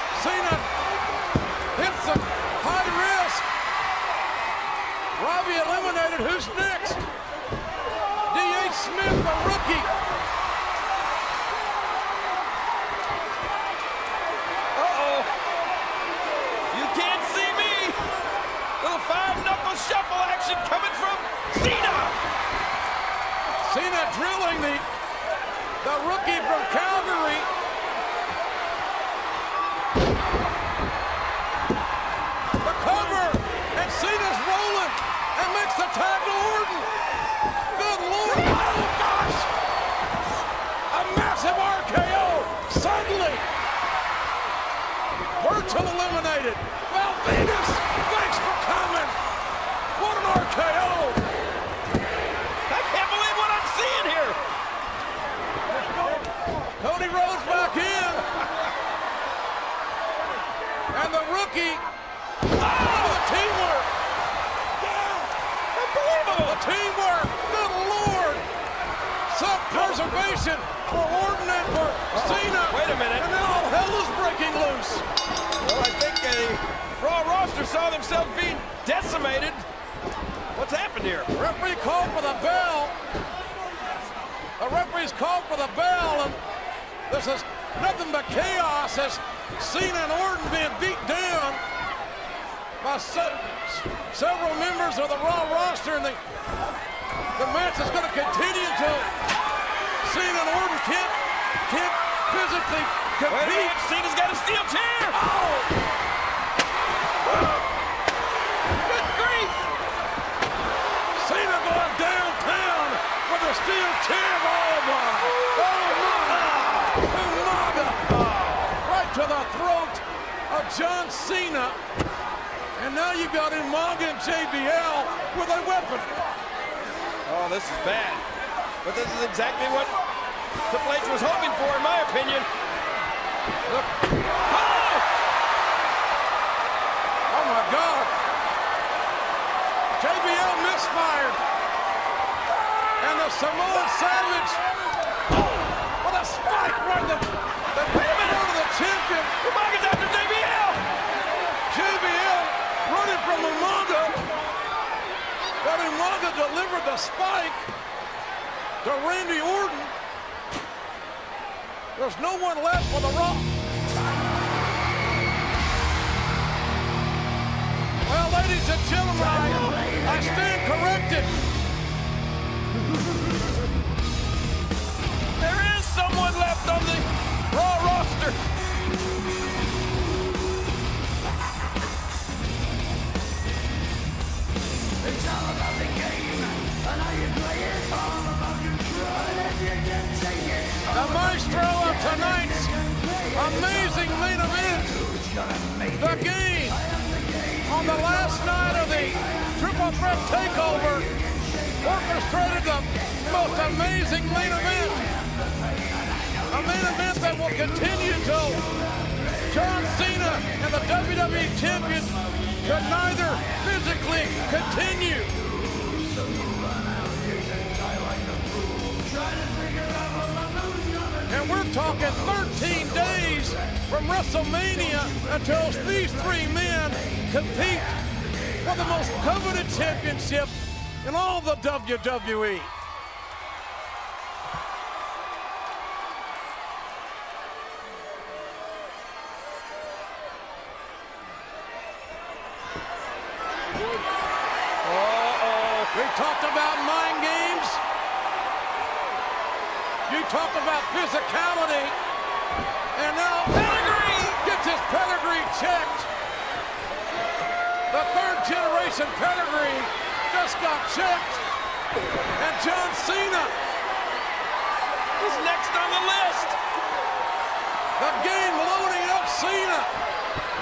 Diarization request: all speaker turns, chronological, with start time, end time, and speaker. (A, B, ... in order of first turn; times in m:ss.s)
0:00.1-0:00.7 A
0:01.7-0:03.4 A
0:05.2-0:07.0 A
0:08.2-0:09.9 A
0:14.7-0:15.3 B
0:16.7-0:18.0 B
0:18.8-0:22.2 B
0:23.6-0:24.8 A
0:25.8-0:27.5 A
0:32.6-0:36.9 A
0:37.7-0:39.5 A
0:40.9-0:43.4 A
0:45.4-0:49.2 A
0:49.9-0:51.2 A
0:52.7-0:54.4 B
0:55.8-0:56.2 A
0:56.8-0:58.3 A
1:00.9-1:01.8 A
1:02.6-1:03.1 B
1:02.6-1:03.9 A
1:05.7-1:06.6 B
1:06.4-1:08.4 A
1:09.3-1:15.0 A
1:12.1-1:13.3 B
1:15.6-1:19.6 B
1:20.5-1:21.3 B
1:21.3-1:22.9 A
1:24.6-1:26.4 A
1:27.1-1:31.6 A
1:32.8-1:36.2 A
1:37.4-1:39.1 A
1:40.0-1:43.8 A
1:43.3-1:45.2 B
1:45.3-1:45.6 A
1:47.3-1:47.6 B
1:48.8-1:49.6 B
1:51.1-1:58.1 A
1:58.1-1:58.7 B
1:58.8-2:01.8 A
2:02.8-2:06.2 A
2:07.2-2:08.2 B
2:08.8-2:09.9 B
2:10.7-2:12.5 B
2:14.5-2:15.0 B
2:17.3-2:18.1 A
2:19.9-2:21.4 A
2:23.0-2:24.6 A
2:26.0-2:29.4 A
2:27.9-2:28.4 B
2:29.4-2:30.9 B
2:31.7-2:34.3 A
2:35.6-2:37.6 A
2:38.8-2:39.9 A
2:42.0-2:43.5 A
2:48.0-2:51.3 A
2:55.4-2:58.4 B
3:10.9-3:12.8 A
3:13.3-3:15.0 A
3:15.9-3:16.8 A
3:17.6-3:21.1 A
3:21.8-3:25.1 A
3:26.5-3:28.7 A
3:29.5-3:35.4 A
3:41.3-3:48.0 A
3:48.6-3:52.7 A
4:04.8-4:05.9 B
4:05.9-4:07.8 A
4:10.1-4:12.0 A
4:12.9-4:16.1 A
4:13.5-4:14.4 B
4:17.9-4:21.4 A
4:22.4-4:23.5 A
4:25.2-4:26.6 B
4:28.0-4:29.9 A